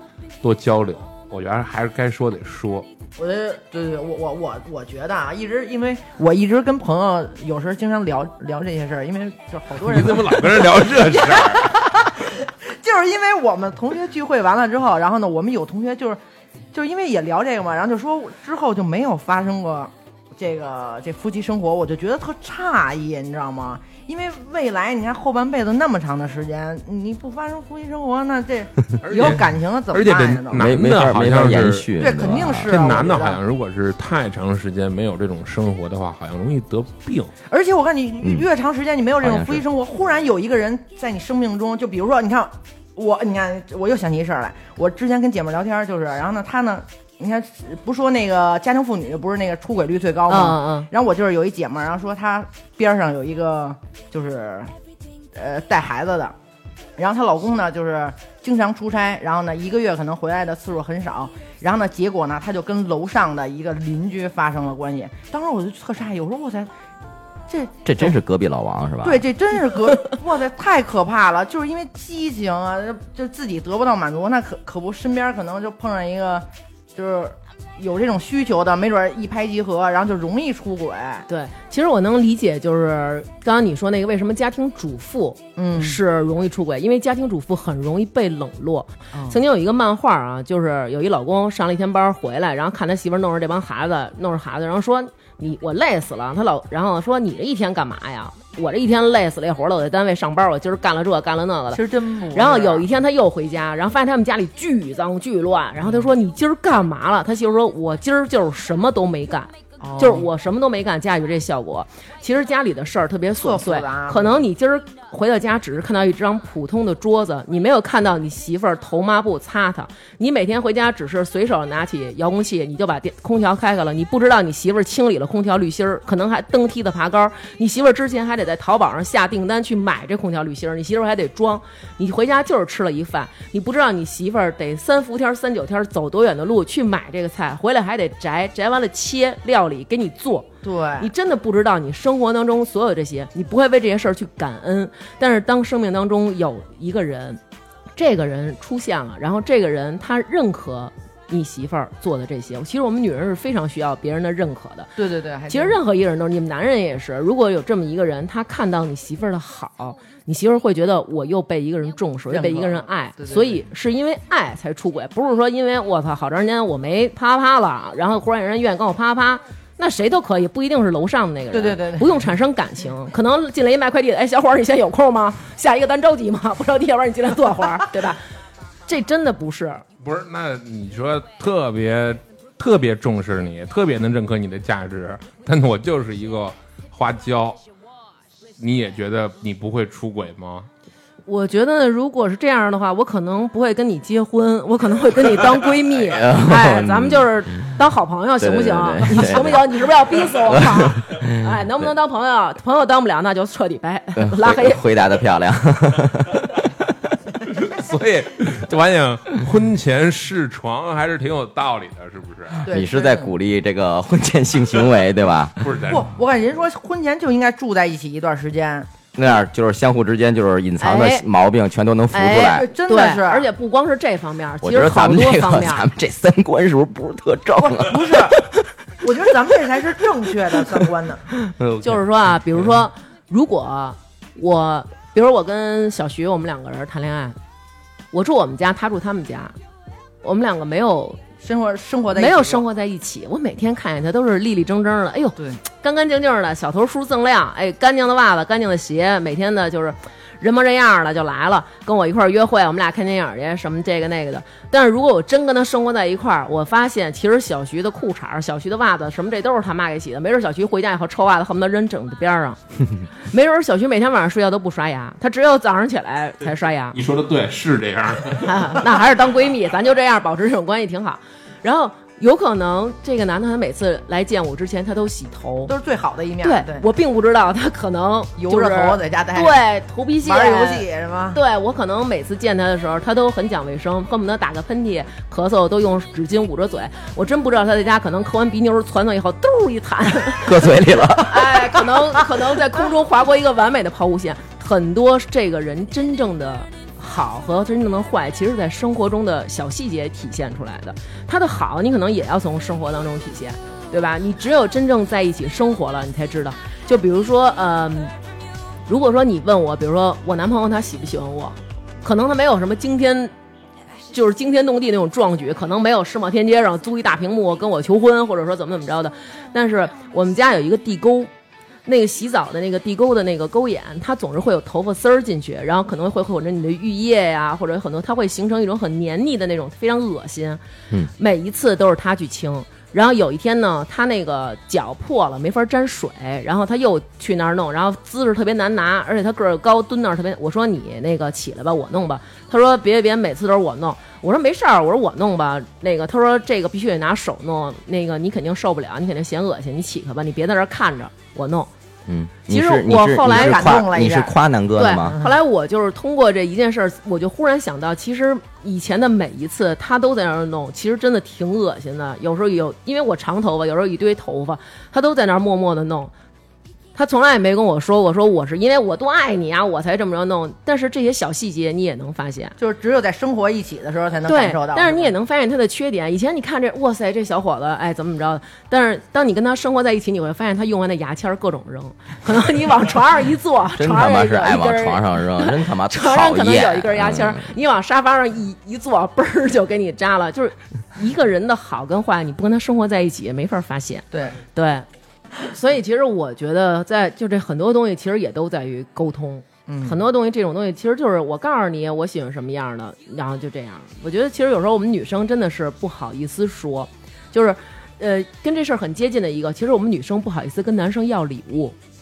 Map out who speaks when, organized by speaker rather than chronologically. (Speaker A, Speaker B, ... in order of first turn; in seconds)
Speaker A: 0.4-2.9, 9.8-11.8, 29.0-37.3, 180.0-187.6, 188.6-190.7, 207.5-212.7, 215.6-216.1, 266.9-269.0
Speaker B: 3.2-16.2, 16.7-30.7, 32.0-33.4, 37.5-54.7, 55.4-56.4, 57.0-66.7, 67.5-68.2, 69.0-81.3, 85.6-86.0, 89.1-89.4, 101.7-102.9, 105.8-106.1, 109.8-110.3, 113.3-114.4, 140.6-141.1, 155.0-155.8, 162.3-163.6, 171.5-172.3, 212.7-213.3, 215.8-218.9, 222.4-223.5, 227.6-228.4, 229.0-231.3, 241.4-242.6, 275.7-276.9, 278.4-279.6, 280.2-281.4, 353.3-354.4, 372.6-375.1, 399.7-400.0
Speaker C: 30.5-32.8, 38.2-38.5, 39.2-39.6, 67.8-69.2, 196.0-197.8, 198.4-201.9, 204.2-206.5, 212.7-215.7, 219.2-222.7, 224.6-228.4, 231.6-232.0, 290.4-291.6, 352.1-355.2, 383.8-387.5
Speaker D: 50.3-50.9, 81.3-101.8, 102.3-147.4, 148.0-154.9, 155.5-178.2, 178.9-179.8, 191.3-204.8, 220.8-221.3, 222.1-225.9, 231.8-237.4, 238.1-239.6, 240.2-241.2, 242.1-262.6, 263.1-267.0, 268.4-275.7, 276.4-308.1, 308.9-313.3, 314.1-321.3, 321.9-330.6, 331.2-351.7, 352.5-353.8, 354.8-366.1, 366.9-372.6, 374.3-394.9, 395.4-411.8